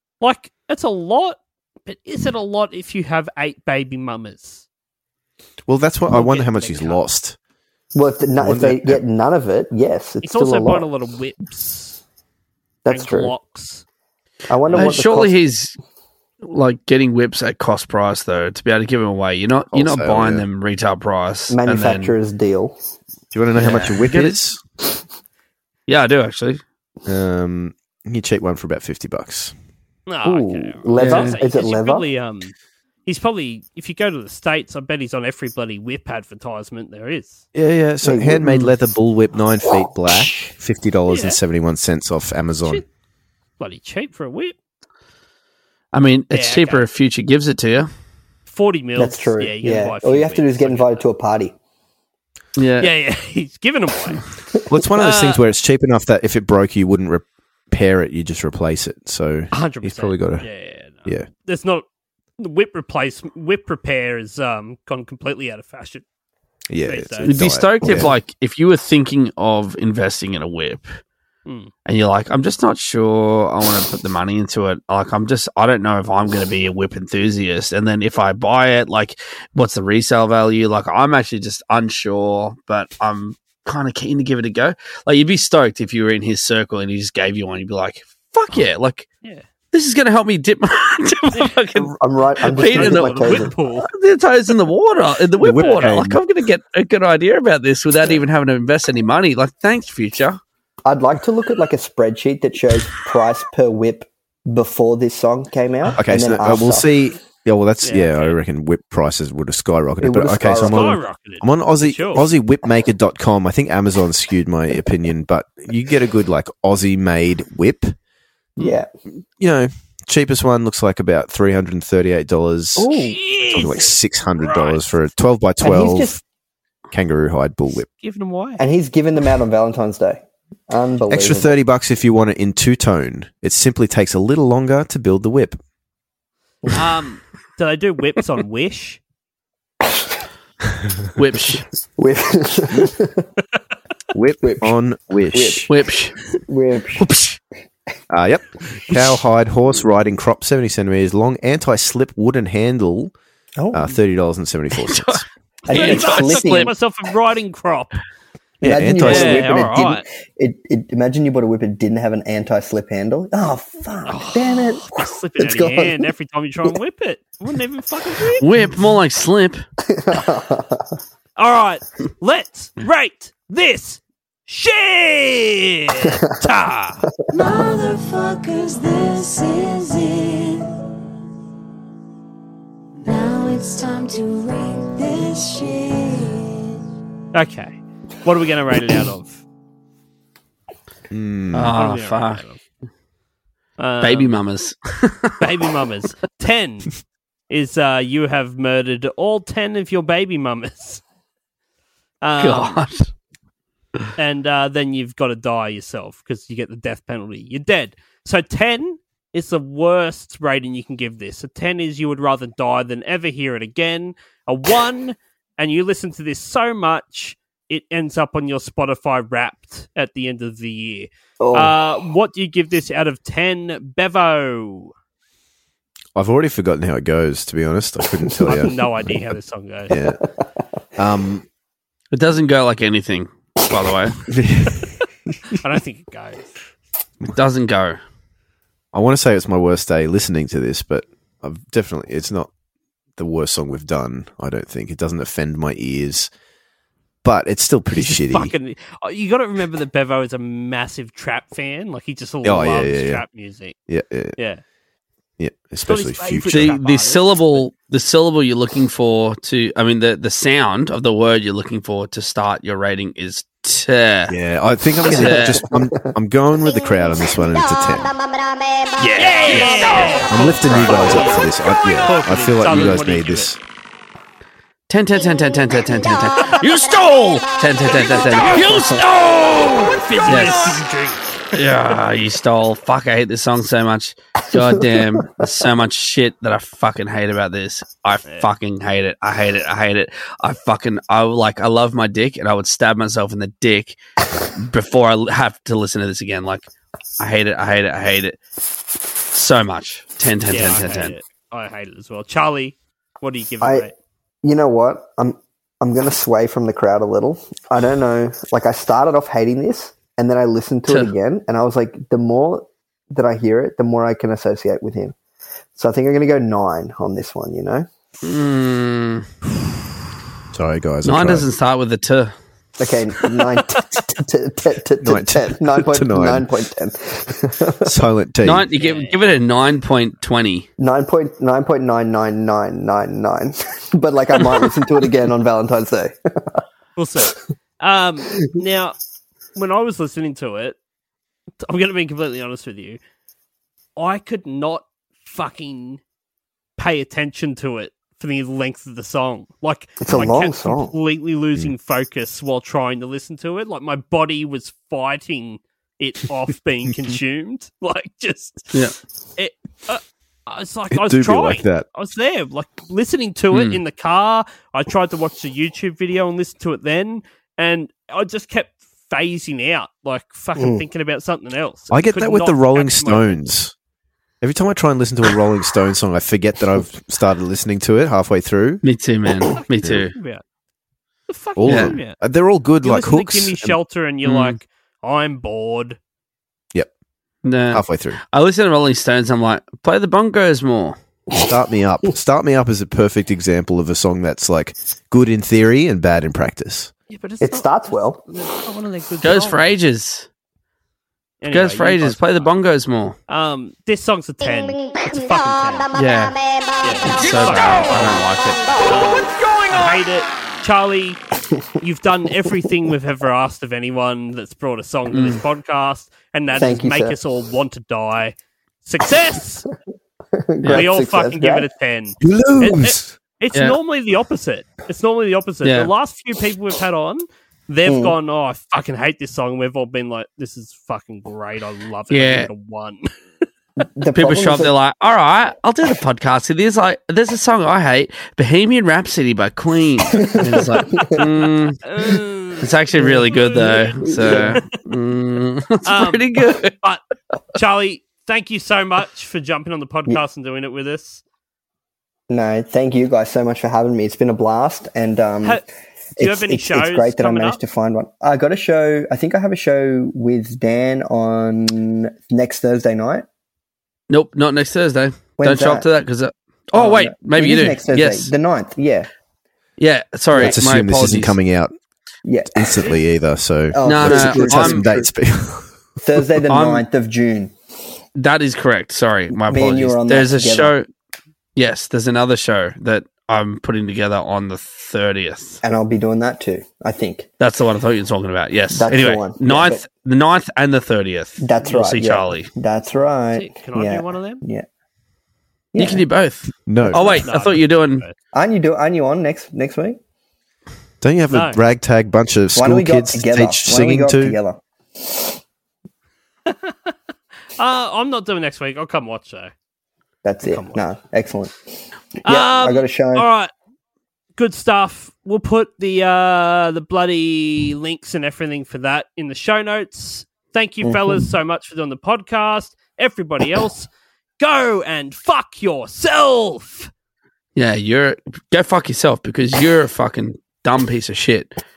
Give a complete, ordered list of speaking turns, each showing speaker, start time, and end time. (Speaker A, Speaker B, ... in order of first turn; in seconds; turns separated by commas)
Speaker A: 0.2-4.7, Speaker B: 5.7-7.4, Speaker A: 6.1-7.0, Speaker C: 7.9-10.9, Speaker B: 8.4-9.0, Speaker A: 10.2-12.0, Speaker C: 12.8-13.3, Speaker A: 12.9-13.8, Speaker C: 14.5-15.3, Speaker D: 14.7-15.8, Speaker D: 16.4-22.1, Speaker B: 19.7-20.4, Speaker C: 21.5-22.8, Speaker B: 23.3-24.6, Speaker D: 23.5-24.4, Speaker D: 25.9-26.6, Speaker B: 27.1-29.5, Speaker A: 30.1-32.5, Speaker C: 30.2-32.1, Speaker D: 31.0-31.3, Speaker A: 33.0-37.4, Speaker B: 37.5-42.8, Speaker C: 38.0-38.7, Speaker C: 39.6-40.5, Speaker A: 41.1-41.4, Speaker A: 43.6-44.5, Speaker D: 45.9-47.9, Speaker A: 46.3-46.8, Speaker A: 48.5-51.0, Speaker C: 49.0-51.5, Speaker D: 52.6-52.9, Speaker A: 52.8-54.2, Speaker B: 54.7-60.5, Speaker A: 55.0-55.4, Speaker A: 59.5-61.8, Speaker A: 62.4-66.0, Speaker B: 66.7-68.1, Speaker A: 66.8-67.3, Speaker D: 67.2-71.0, Speaker A: 71.5-71.7, Speaker D: 71.8-89.1, Speaker D: 89.7-91.9, Speaker C: 91.8-93.5, Speaker D: 92.5-100.4, Speaker A: 92.6-93.9, Speaker B: 95.4-96.2, Speaker C: 100.8-107.0, Speaker B: 106.0-117.9, Speaker A: 107.8-108.4, Speaker C: 110.0-111.0, Speaker A: 110.5-112.2, Speaker C: 118.6-118.9, Speaker B: 119.4-126.2, Speaker C: 122.8-123.2, Speaker A: 122.9-124.9, Speaker C: 125.6-126.2, Speaker B: 126.9-127.9, Speaker A: 127.9-128.6, Speaker C: 128.6-131.5, Speaker B: 131.1-135.6, Speaker A: 136.7-139.0, Speaker D: 141.2-141.7, Speaker C: 142.0-143.3, Speaker B: 144.1-145.7, Speaker C: 144.4-145.7, Speaker D: 145.7-146.2, Speaker C: 146.4-147.1, Speaker D: 147.0-147.4, Speaker B: 148.1-153.1, Speaker C: 153.6-153.9, Speaker B: 153.7-155.2, Speaker D: 154.7-155.2, Speaker C: 155.7-156.7, Speaker A: 155.7-157.9, Speaker D: 155.7-156.7, Speaker C: 158.6-166.1, Speaker B: 158.6-159.5, Speaker A: 159.0-160.1, Speaker A: 164.1-168.4, Speaker D: 168.4-169.6, Speaker C: 169.9-170.9, Speaker A: 171.4-177.0, Speaker E: 177.3-180.7, Speaker E: 183.0-186.8, Speaker A: 187.3-189.4, Speaker B: 191.1-191.7, Speaker D: 191.5-192.4, Speaker A: 191.7-192.6, Speaker A: 193.8-194.4, Speaker D: 194.0-195.3, Speaker A: 195.4-196.9, Speaker A: 197.5-201.0, Speaker A: 202.2-202.8, Speaker D: 202.4-203.1, Speaker A: 204.2-224.9, Speaker C: 221.4-221.8, Speaker B: 226.1-229.1, Speaker C: 228.2-228.8, Speaker A: 228.5-229.9, Speaker B: 229.9-230.2, Speaker B: 230.9-231.4, Speaker D: 232.1-234.2, Speaker B: 234.3-235.3, Speaker A: 235.6-236.5, Speaker D: 237.3-238.0, Speaker B: 238.9-242.5, Speaker B: 243.2-246.3, Speaker B: 247.2-248.5, Speaker A: 248.3-253.8, Speaker B: 252.4-253.2, Speaker B: 253.9-254.3, Speaker A: 254.3-254.6, Speaker B: 255.4-256.8, Speaker A: 255.9-257.7, Speaker D: 256.5-264.3, Speaker B: 264.3-268.1, Speaker D: 265.0-265.6, Speaker C: 265.1-266.0, Speaker D: 269.0-271.4, Speaker A: 269.2-271.5, Speaker B: 270.3-273.6, Speaker A: 272.0-273.6, Speaker D: 272.7-273.0, Speaker D: 274.9-280.8, Speaker A: 277.9-281.4, Speaker D: 281.5-294.0, Speaker D: 294.6-296.7, Speaker D: 297.2-298.4, Speaker D: 299.3-301.1, Speaker A: 300.5-303.9, Speaker C: 303.6-303.9, Speaker C: 304.4-315.1, Speaker C: 315.7-317.9, Speaker D: 318.2-319.3, Speaker B: 320.5-321.4, Speaker D: 321.0-322.3, Speaker C: 322.8-328.0, Speaker B: 325.0-326.5, Speaker B: 327.8-328.6, Speaker D: 328.4-330.7, Speaker A: 328.7-329.2, Speaker C: 330.8-336.6, Speaker A: 337.0-338.9, Speaker A: 339.5-340.8, Speaker A: 341.6-343.0, Speaker A: 344.0-346.0, Speaker A: 346.8-358.7, Speaker C: 350.0-350.9, Speaker A: 359.4-373.4, Speaker B: 360.9-361.9, Speaker D: 363.5-363.8, Speaker C: 370.6-370.8, Speaker B: 371.9-373.7, Speaker B: 374.4-378.8, Speaker D: 378.8-380.1, Speaker A: 379.6-380.4, Speaker A: 381.3-382.2, Speaker B: 381.6-383.8, Speaker D: 381.7-381.9, Speaker A: 382.8-386.0, Speaker D: 384.2-384.6, Speaker D: 387.4-390.9, Speaker B: 387.7-388.2, Speaker B: 391.4-396.9, Speaker A: 397.1-399.7, Speaker C: 397.4-398.2, Speaker D: 399.2-400.3, Speaker A: 401.4-402.5, Speaker D: 401.5-403.2, Speaker A: 403.3-405.9, Speaker D: 405.9-406.4, Speaker A: 406.8-408.3, Speaker D: 407.0-408.7, Speaker A: 408.8-411.2, Speaker A: 411.8-419.6, Speaker D: 415.1-415.4, Speaker C: 416.5-417.2, Speaker C: 420.3-421.7, Speaker A: 420.7-433.1, Speaker B: 422.2-423.1, Speaker D: 425.6-425.9, Speaker C: 427.8-428.2, Speaker D: 432.1-432.5, Speaker C: 433.8-434.7, Speaker D: 434.1-441.8, Speaker C: 440.4-441.2, Speaker A: 441.9-442.7, Speaker D: 442.6-446.8, Speaker C: 443.0-444.6, Speaker A: 443.3-444.6, Speaker A: 445.8-447.0, Speaker A: 447.5-451.2, Speaker C: 452.3-455.6, Speaker C: 456.1-463.2, Speaker A: 456.2-457.6, Speaker D: 464.1-468.3, Speaker C: 465.4-465.9, Speaker C: 466.7-469.1, Speaker D: 469.8-471.4, Speaker B: 470.4-471.7, Speaker C: 472.2-473.0, Speaker B: 472.5-475.7, Speaker C: 473.7-475.1, Speaker D: 473.8-474.9, Speaker C: 476.0-477.5, Speaker D: 476.5-476.8, Speaker D: 478.1-480.9, Speaker C: 479.3-480.7, Speaker D: 481.6-485.6, Speaker C: 485.6-487.3, Speaker D: 487.4-492.5, Speaker C: 488.7-489.8, Speaker C: 491.4-494.6, Speaker A: 493.3-494.4, Speaker C: 495.7-496.1, Speaker D: 495.8-498.0, Speaker B: 496.6-497.2, Speaker A: 497.2-498.1, Speaker C: 498.3-500.0, Speaker B: 501.0-504.4, Speaker A: 501.3-501.6, Speaker C: 502.5-505.4, Speaker A: 506.4-506.9, Speaker A: 507.6-509.5, Speaker C: 510.2-511.6, Speaker A: 510.4-510.8, Speaker C: 512.2-513.3, Speaker A: 512.2-513.5, Speaker A: 514.4-526.9, Speaker C: 520.8-521.2, Speaker D: 527.5-531.5